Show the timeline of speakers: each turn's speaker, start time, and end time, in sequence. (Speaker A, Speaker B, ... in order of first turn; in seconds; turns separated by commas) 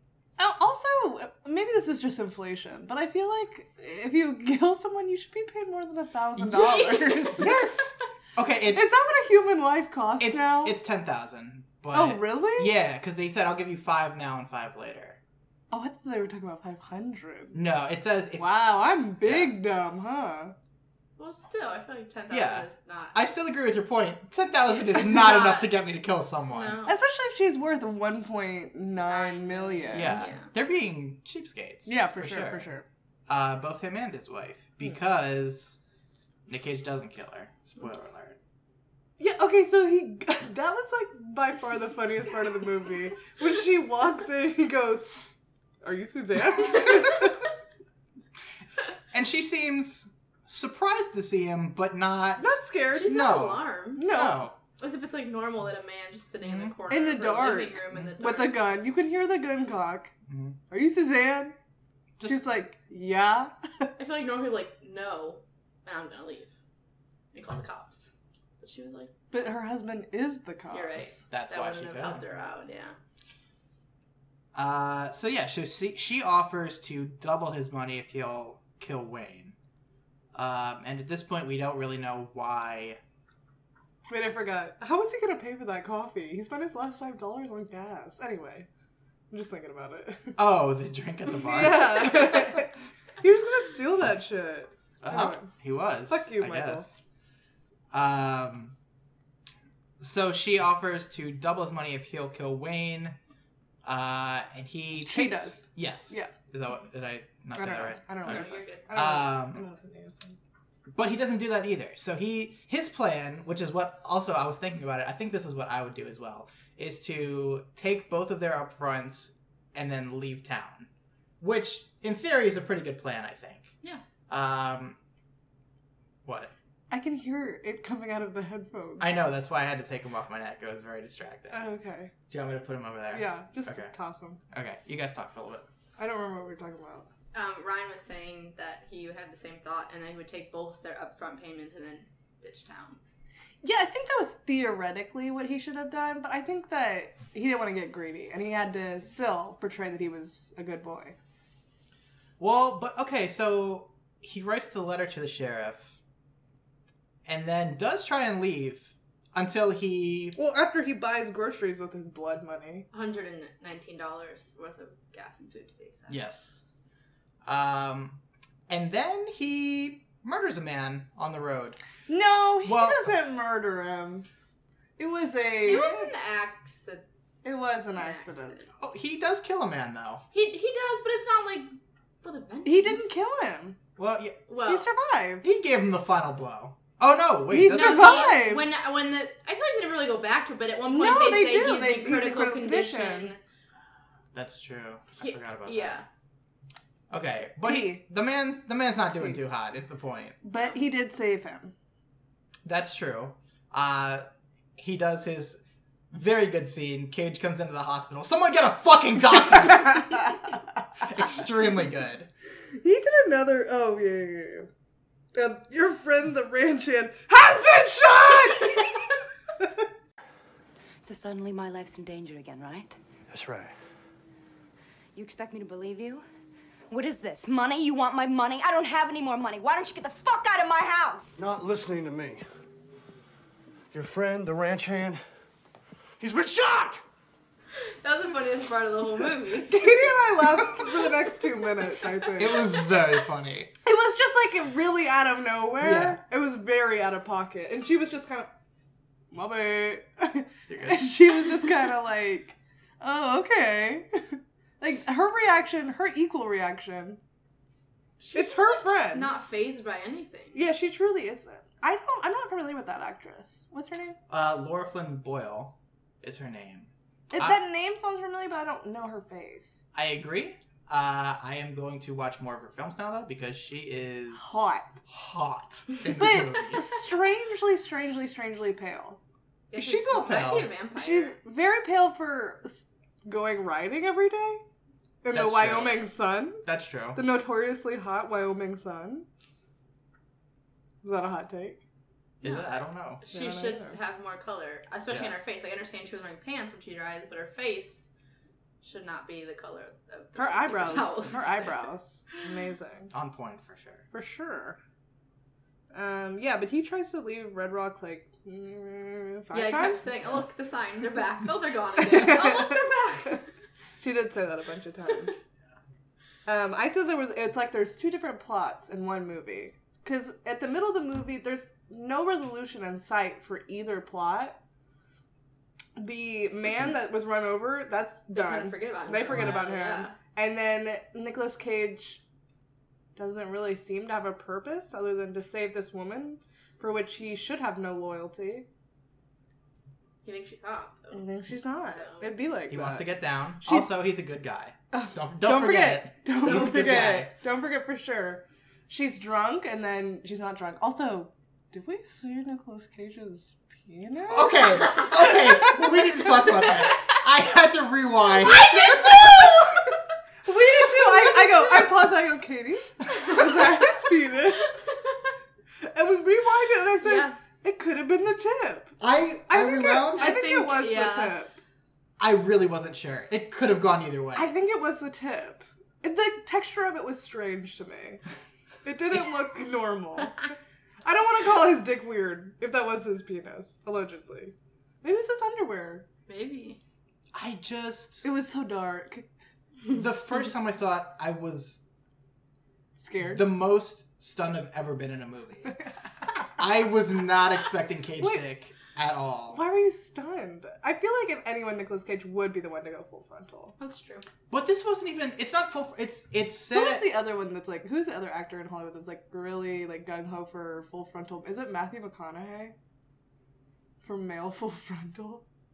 Speaker A: 0.4-7.6, Speaker B: 6.5-7.4, Speaker C: 7.4-8.9, Speaker A: 8.7-10.8, Speaker C: 10.2-15.2, Speaker A: 11.9-12.7, Speaker A: 15.7-17.6, Speaker C: 17.5-19.6, Speaker A: 18.4-20.5, Speaker B: 21.2-23.1, Speaker C: 22.3-26.8, Speaker B: 24.8-25.7, Speaker B: 26.5-27.0, Speaker A: 26.9-30.2, Speaker B: 29.1-30.5, Speaker C: 29.9-32.7, Speaker A: 31.9-32.9, Speaker C: 33.3-35.8, Speaker C: 36.5-38.4, Speaker A: 39.2-45.1, Speaker A: 45.8-47.5, Speaker C: 49.1-54.6, Speaker A: 52.4-53.4, Speaker B: 52.9-54.2, Speaker A: 54.0-54.5, Speaker B: 54.8-58.6, Speaker C: 56.4-56.7, Speaker A: 56.9-60.1, Speaker C: 60.3-60.6, Speaker A: 60.7-61.5, Speaker C: 62.2-62.4, Speaker A: 62.2-63.9, Speaker B: 64.0-66.5, Speaker B: 67.3-68.1, Speaker B: 68.6-69.1, Speaker A: 69.3-71.1, Speaker B: 70.7-73.0, Speaker C: 71.3-72.2, Speaker C: 74.5-79.5, Speaker C: 80.3-83.0, Speaker A: 84.1-88.7, Speaker A: 89.3-90.4, Speaker C: 90.4-92.6, Speaker A: 91.4-95.5, Speaker C: 95.0-96.9, Speaker A: 96.1-96.9, Speaker C: 97.9-98.8, Speaker C: 100.0-103.2, Speaker C: 103.8-109.6, Speaker A: 105.1-106.3, Speaker A: 107.5-110.4, Speaker B: 108.2-108.9, Speaker C: 110.9-120.9, Speaker C: 121.4-123.7, Speaker C: 124.3-125.0, Speaker C: 126.2-126.5, Speaker A: 126.9-129.2, Speaker C: 129.0-131.6, Speaker A: 131.5-132.1, Speaker C: 132.3-133.9, Speaker A: 133.1-134.4, Speaker C: 134.5-135.7, Speaker A: 136.0-137.1, Speaker B: 137.3-143.0, Speaker A: 143.6-151.2, Speaker C: 152.4-156.0, Speaker C: 157.3-160.4, Speaker A: 160.4-162.9, Speaker B: 162.9-166.2, Speaker C: 166.1-166.6, Speaker C: 167.4-171.8, Speaker A: 172.1-174.3, Speaker C: 172.6-173.1, Speaker A: 175.0-176.1, Speaker B: 175.7-177.1, Speaker A: 177.4-178.6, Speaker B: 177.9-178.7, Speaker C: 178.8-180.2, Speaker B: 180.3-181.7, Speaker B: 182.2-183.2, Speaker A: 182.7-183.8, Speaker C: 184.0-184.4, Speaker B: 184.5-184.9, Speaker A: 184.7-185.4, Speaker C: 185.4-188.4, Speaker A: 187.5-188.7, Speaker B: 187.7-193.4, Speaker A: 190.9-193.3, Speaker C: 194.3-196.0, Speaker B: 195.2-196.1, Speaker C: 197.1-200.4, Speaker A: 197.6-198.0, Speaker A: 200.4-201.7, Speaker C: 202.7-204.2, Speaker C: 204.8-205.6, Speaker C: 206.1-212.3, Speaker A: 212.8-214.7, Speaker A: 215.3-219.0, Speaker D: 221.0-223.0, Speaker E: 223.3-223.7, Speaker D: 225.2-226.2, Speaker D: 226.9-231.4, Speaker E: 231.4-232.4, Speaker E: 233.9-235.2, Speaker E: 236.2-237.0, Speaker B: 238.0-240.1, Speaker A: 239.7-242.6, Speaker C: 242.4-243.7, Speaker A: 243.8-248.5, Speaker C: 245.8-246.2, Speaker A: 249.3-257.2, Speaker C: 250.7-251.1, Speaker B: 258.2-260.6, Speaker A: 258.3-259.3, Speaker A: 260.5-264.2, Speaker C: 264.3-267.6, Speaker A: 267.3-269.8, Speaker C: 269.9-277.0, Speaker A: 274.4-275.0, Speaker A: 276.2-279.2, Speaker B: 279.7-281.4, Speaker C: 279.8-280.7, Speaker A: 280.9-284.6, Speaker A: 285.2-286.6, Speaker C: 285.3-286.0, Speaker C: 286.6-287.2, Speaker A: 287.1-289.3, Speaker A: 291.0-291.8, Speaker C: 292.4-293.2, Speaker B: 292.4-298.1, Speaker A: 293.3-294.0, Speaker C: 295.1-295.4, Speaker B: 298.8-301.8, Speaker A: 300.4-303.1, Speaker C: 303.1-304.1, Speaker A: 304.1-304.8, Speaker A: 305.9-310.1, Speaker B: 309.5-313.5, Speaker A: 312.0-312.9, Speaker A: 314.0-315.4, Speaker A: 316.5-324.6, Speaker A: 326.0-332.2, Speaker B: 328.3-330.2, Speaker A: 333.2-338.7, Speaker B: 340.2-341.2, Speaker A: 341.1-343.9, Speaker B: 341.9-342.3, Speaker C: 342.7-347.3, Speaker A: 344.9-355.8, Speaker C: 354.3-359.2, Speaker B: 358.4-360.0, Speaker A: 360.4-365.0, Speaker A: 365.8-369.0, Speaker B: 367.0-367.4, Speaker C: 369.0-370.4, Speaker A: 369.5-371.6, Speaker B: 370.0-371.4, Speaker C: 372.2-374.5, Speaker A: 374.4-378.2, Speaker A: 378.8-380.5, Speaker A: 381.0-386.1, Speaker B: 386.3-386.8, Speaker C: 387.3-388.2, Speaker A: 388.2-389.3, Speaker C: 389.9-391.8, Speaker A: 393.0-393.5, Speaker C: 393.3-395.8, Speaker C: 396.6-399.6, Speaker A: 399.5-403.8, Speaker B: 403.8-404.3, Speaker C: 404.5-407.2, Speaker A: 406.7-412.7, Speaker A: 414.0-415.4